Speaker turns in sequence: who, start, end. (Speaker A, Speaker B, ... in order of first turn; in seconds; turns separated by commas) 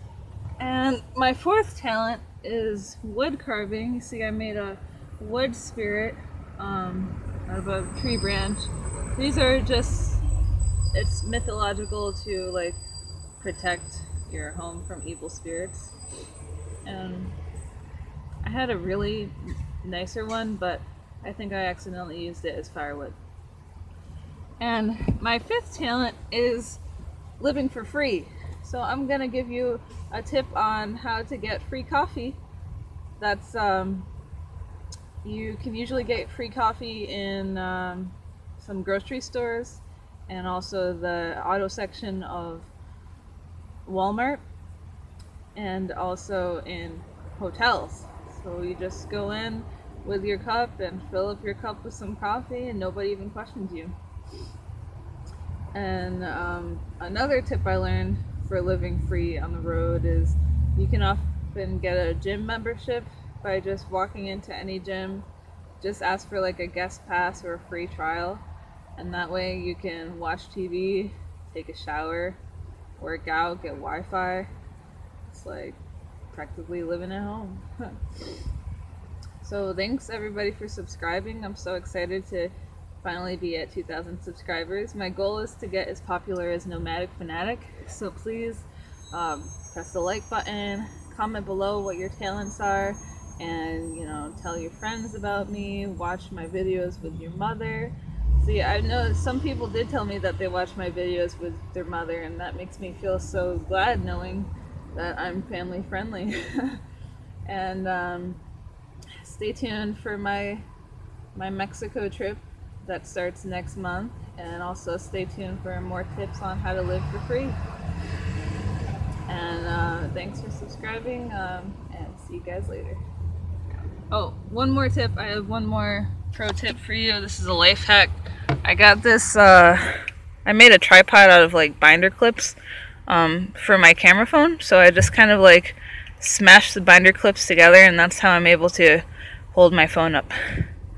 Speaker A: 0.6-10.2, Speaker A: 10.9-12.8, Speaker A: 13.4-15.9, Speaker A: 16.8-17.4, Speaker A: 18.4-23.2, Speaker A: 24.6-26.8, Speaker A: 27.4-32.4, Speaker A: 33.2-34.1, Speaker A: 35.2-42.7, Speaker A: 43.9-44.4, Speaker A: 45.5-53.9, Speaker A: 55.7-65.3, Speaker A: 65.8-68.4, Speaker A: 69.0-72.4, Speaker A: 73.0-74.5, Speaker A: 75.3-75.8, Speaker A: 76.3-78.4, Speaker A: 79.4-106.8, Speaker A: 107.4-108.4, Speaker A: 109.2-110.7, Speaker A: 111.3-117.6, Speaker A: 119.3-123.0, Speaker A: 124.1-140.7